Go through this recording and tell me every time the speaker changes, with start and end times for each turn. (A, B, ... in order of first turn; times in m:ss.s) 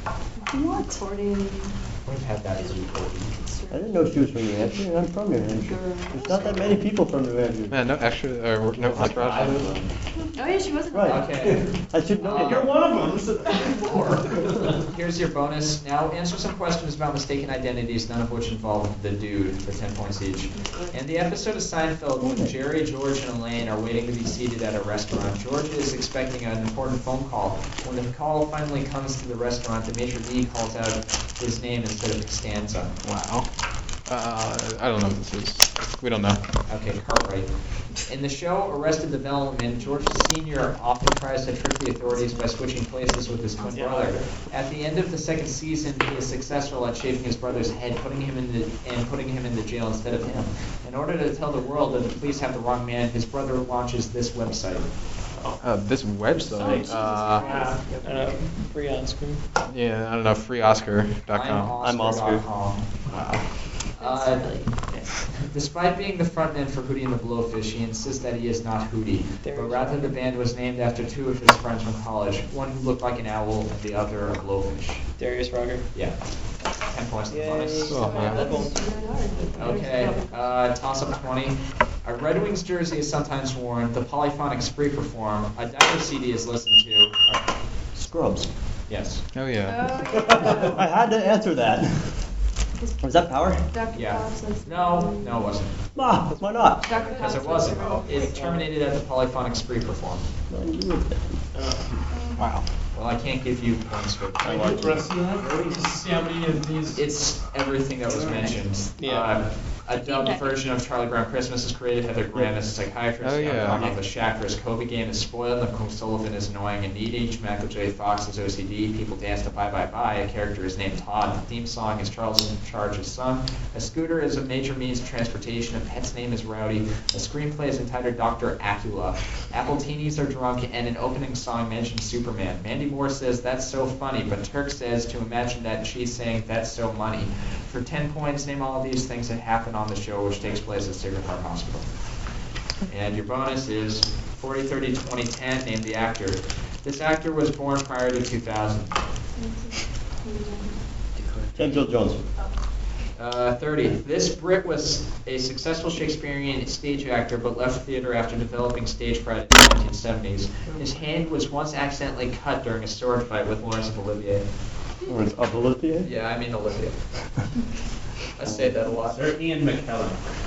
0:00.4-0:01.7 A
0:00.5-0:01.0 B
0:02.1-0:03.3 C
0:02.6-0:04.1 A
0:03.7-0:07.8 B
0:05.5-0:06.7 A
0:06.3-0:06.7 D
0:07.7-0:09.7 E
0:08.8-0:09.9 D
0:10.3-0:11.3 A
0:10.9-0:11.3 B
0:11.0-0:11.6 C
0:11.4-0:11.7 D
0:11.9-0:12.7 B
0:12.2-0:12.8 C
0:12.3-0:14.8 D
0:13.6-0:32.9 C
0:20.6-0:21.0 A
0:22.2-0:22.6 B
0:33.0-0:33.5 E
0:34.0-0:36.4 E
0:36.7-0:54.9 C
0:42.1-0:42.5 A
0:43.7-0:44.2 F
0:55.6-0:57.5 E
0:56.5-0:58.0 A
0:57.4-0:58.4 F
0:58.0-0:59.4 G
0:59.7-1:02.2 E
1:01.3-1:03.3 C
1:01.8-1:02.4 B
1:03.9-1:04.5 C
1:04.0-1:04.9 A
1:05.4-1:15.1 C
1:09.4-1:10.1 G
1:15.2-1:15.9 G
1:15.9-1:16.2 C
1:16.9-1:18.1 C
1:17.3-1:19.0 G
1:17.8-1:18.5 E
1:17.9-1:20.6 A
1:19.6-1:27.5 C
1:28.0-1:28.5 B
1:28.9-1:29.2 C
1:29.3-1:30.0 E
1:29.6-1:30.8 A
1:30.1-1:32.2 B
1:32.8-1:35.5 A
1:33.0-1:33.7 B
1:33.9-1:35.8 C
1:36.0-1:36.9 B
1:36.8-1:38.6 A
1:37.0-1:40.3 C
1:40.5-1:41.4 B
1:41.5-1:41.9 G
1:42.1-1:42.4 A
1:42.4-1:42.6 E
1:42.9-1:45.0 C
1:44.4-1:47.0 F
1:44.4-1:45.1 B
1:46.9-2:21.9 C
1:48.2-1:49.4 G
1:50.0-1:50.6 A
1:53.2-1:54.0 E
2:22.9-2:29.0 C
2:29.4-2:30.8 A
2:31.6-2:32.3 B
2:33.2-2:44.4 C
2:45.0-2:46.1 B
2:46.0-2:47.0 C
2:48.4-2:49.4 C
2:48.4-2:48.9 B
2:49.0-2:50.2 D